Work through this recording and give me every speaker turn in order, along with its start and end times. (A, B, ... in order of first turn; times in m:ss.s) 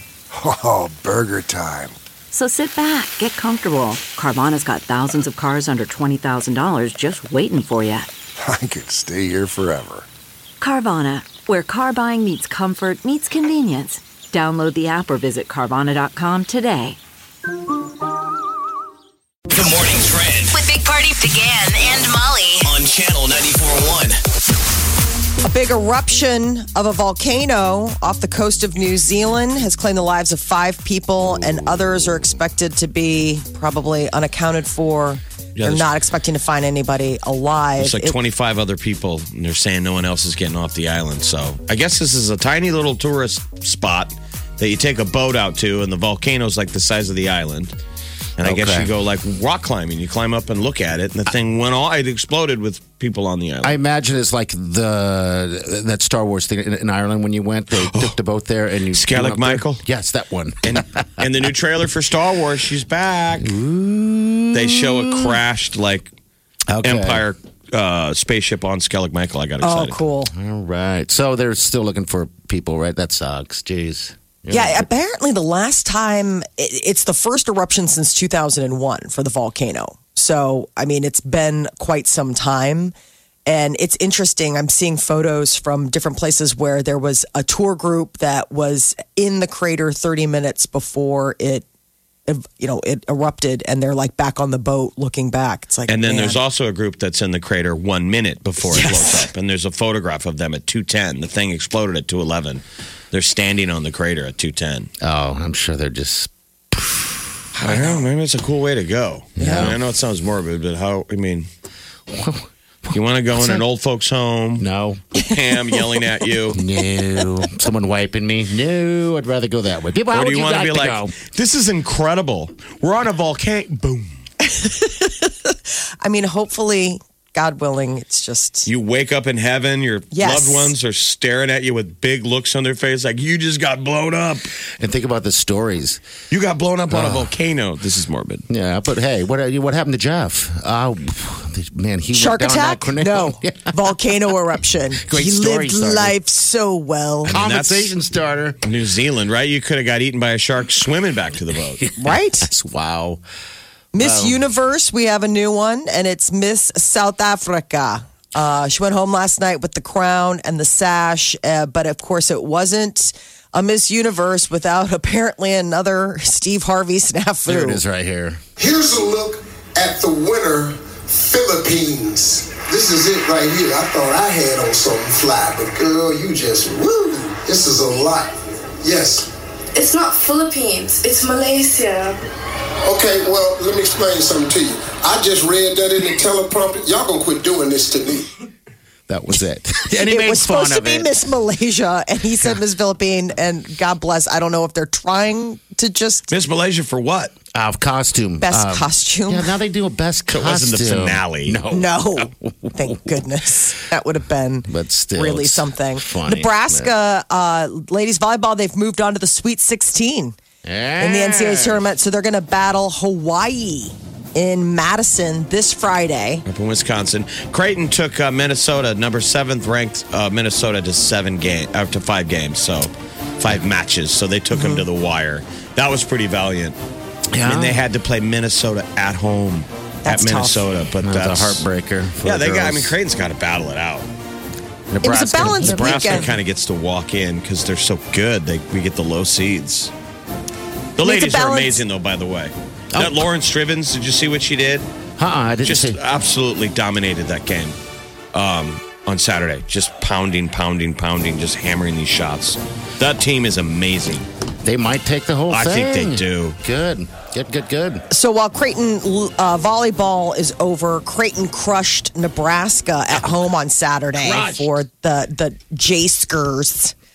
0:00.3-0:02.0 A
0:02.3-0:08.1 B
0:08.4-0:10.1 A
0:10.6-0:17.0 B
0:19.5-0:20.5 C
0:20.4-0:22.7 D
0:22.6-0:24.1 C
0:25.4-0:38.2 E
0:35.6-0:35.9 F
0:37.8-0:47.8 F
0:48.4-0:53.8 F
0:48.4-0:48.9 G
0:53.6-1:01.3 G
0:57.7-0:58.1 F
0:58.9-0:59.8 F
1:00.6-1:03.6 F
1:03.4-1:05.4 G
1:04.5-1:06.1 F
1:06.7-1:07.2 G
1:06.8-1:10.0 F
1:09.6-1:10.3 E
1:10.3-1:14.9 G
1:14.5-1:22.9 E
1:23.4-1:31.6 E
1:32.3-1:36.4 E
1:35.9-1:44.9 F
1:38.6-1:39.3 E
1:45.0-1:48.0 G
1:47.5-1:51.5 F
1:49.4-1:49.8 G
1:49.4-1:49.6 E
1:52.1-1:53.6 G
1:52.9-1:56.6 F
1:54.6-1:55.0 G
1:56.5-2:01.1 G
2:00.1-2:04.2 F
2:04.4-2:08.7 E
2:08.6-2:14.5 F
2:10.1-2:10.7 E
2:14.8-2:16.0 G
2:16.3-2:18.4 F
2:16.9-2:17.3 G
2:18.5-2:23.7 G
2:22.1-2:27.4 E
2:25.0-2:26.2 G
2:27.2-2:27.9 F
2:27.2-2:28.6 G
2:28.6-2:31.8 F
2:32.0-2:32.5 E
2:32.0-2:33.2 G
2:33.9-2:47.8 E
2:34.0-2:34.4 G
2:47.5-2:48.4 G
2:48.6-2:59.3 H
2:59.7-3:02.2 I
3:02.8-3:08.3 H
3:09.1-3:11.1 G
3:09.9-3:16.3 E
3:16.3-3:17.3 F
3:17.5-3:22.9 G
3:18.4-3:19.6 E
3:20.3-3:21.6 F
3:21.7-3:30.4 E
3:24.7-3:26.9 G
3:30.6-3:31.8 G
3:31.0-3:36.4 E
3:36.4-3:46.8 F
3:44.5-3:44.9 E
3:47.3-3:47.8 G
3:47.4-3:51.6 F
3:50.0-3:50.6 E
3:51.0-3:52.9 G
3:52.2-3:54.1 F
3:54.9-3:56.4 G
3:55.0-3:56.3 E
3:55.4-3:59.9 F
4:01.0-4:04.8 F
4:01.0-4:01.8 E
4:02.9-4:03.2 G
4:05.2-4:06.0 G
4:05.6-4:07.8 F
4:08.3-4:14.3 F
4:14.6-4:18.0 G
4:15.5-4:16.6 F
4:18.1-4:26.9 E
4:24.2-4:24.7 F